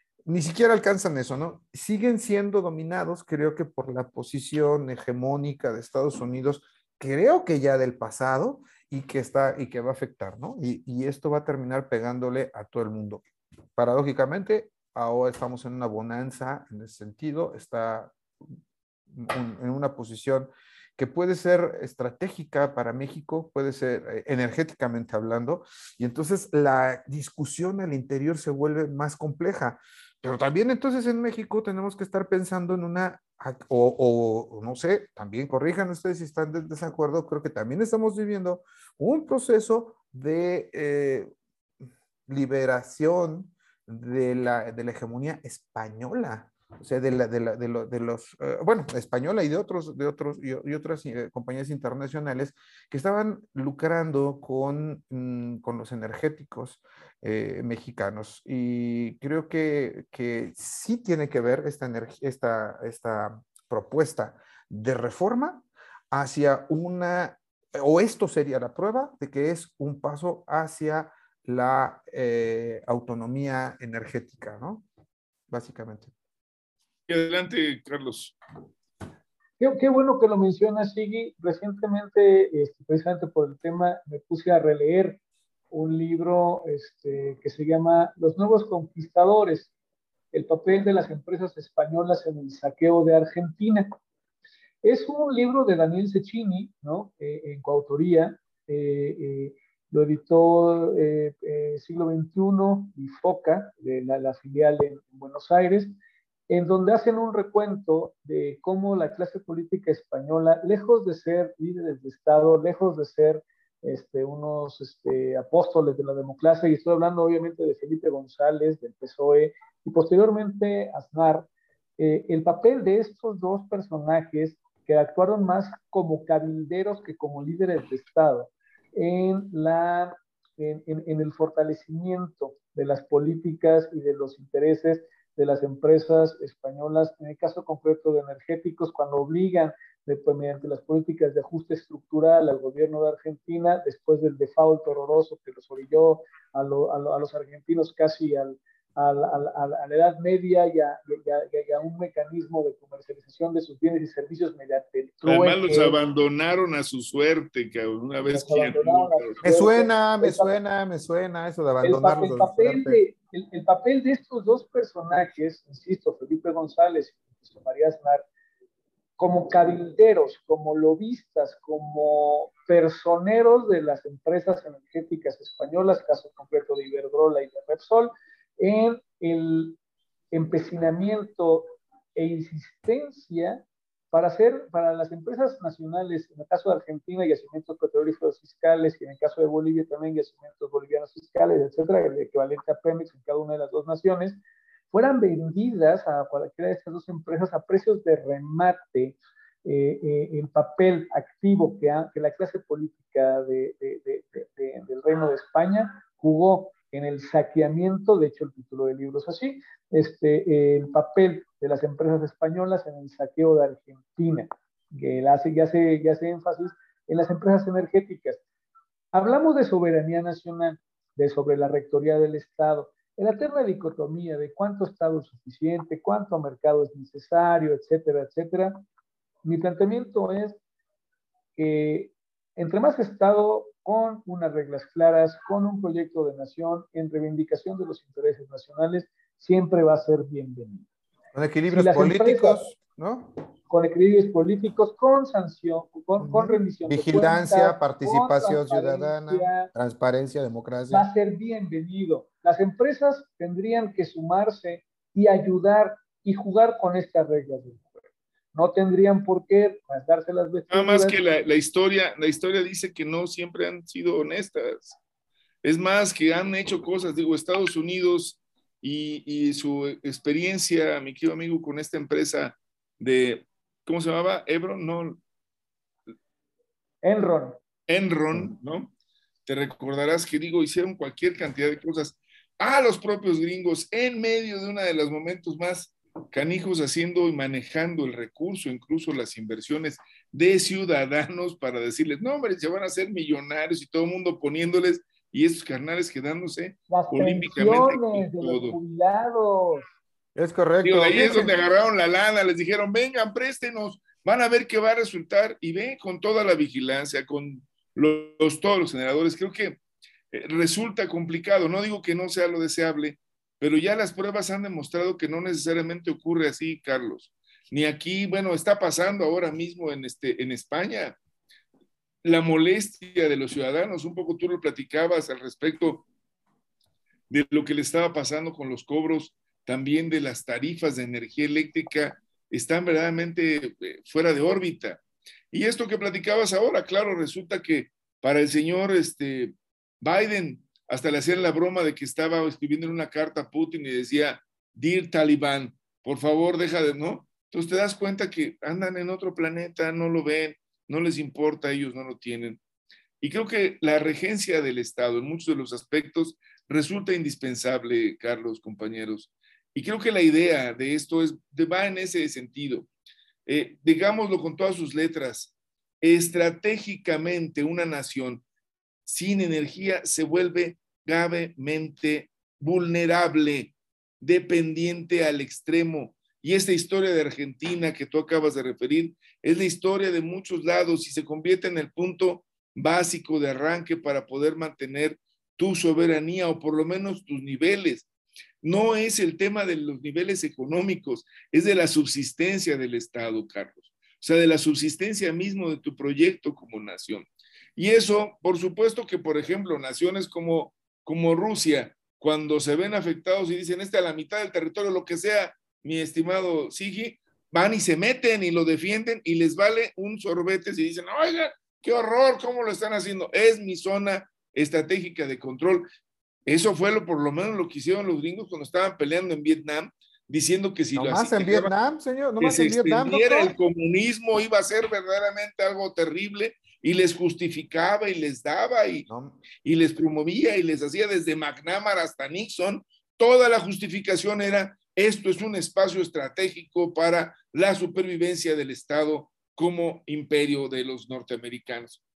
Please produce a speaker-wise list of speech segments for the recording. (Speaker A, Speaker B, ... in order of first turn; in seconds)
Speaker A: 0.2-13.2, 13.8-18.1, 19.1-41.3, 42.3-74.8, 75.5-76.1, 159.4-163.0, 241.3-243.3, 246.2-251.1, 300.4-301.5, 420.9-423.5, 429.1-429.4
Speaker B: 77.1-78.3, 155.2-159.4, 260.7-265.0, 265.6-275.2, 277.9-278.9, 279.4-298.8, 300.8-309.8, 310.3-321.2, 322.2-326.0, 327.3-335.0, 335.5-352.6, 353.2-362.9, 363.5-368.4, 369.1-388.1, 388.6-397.2, 397.8-415.9, 416.4-421.7, 422.4-429.1, 429.6-442.0
Speaker C: 79.6-89.7, 90.3-93.9, 94.8-105.9, 106.5-121.5, 122.0-155.9, 158.3-160.5, 161.8-168.2, 169.2-179.8, 180.3-194.4, 194.9-218.4, 219.1-228.8, 229.4-230.6, 231.6-240.9, 241.7-242.7, 243.7-249.7, 250.9-261.2, 277.0-277.6, 296.9-299.8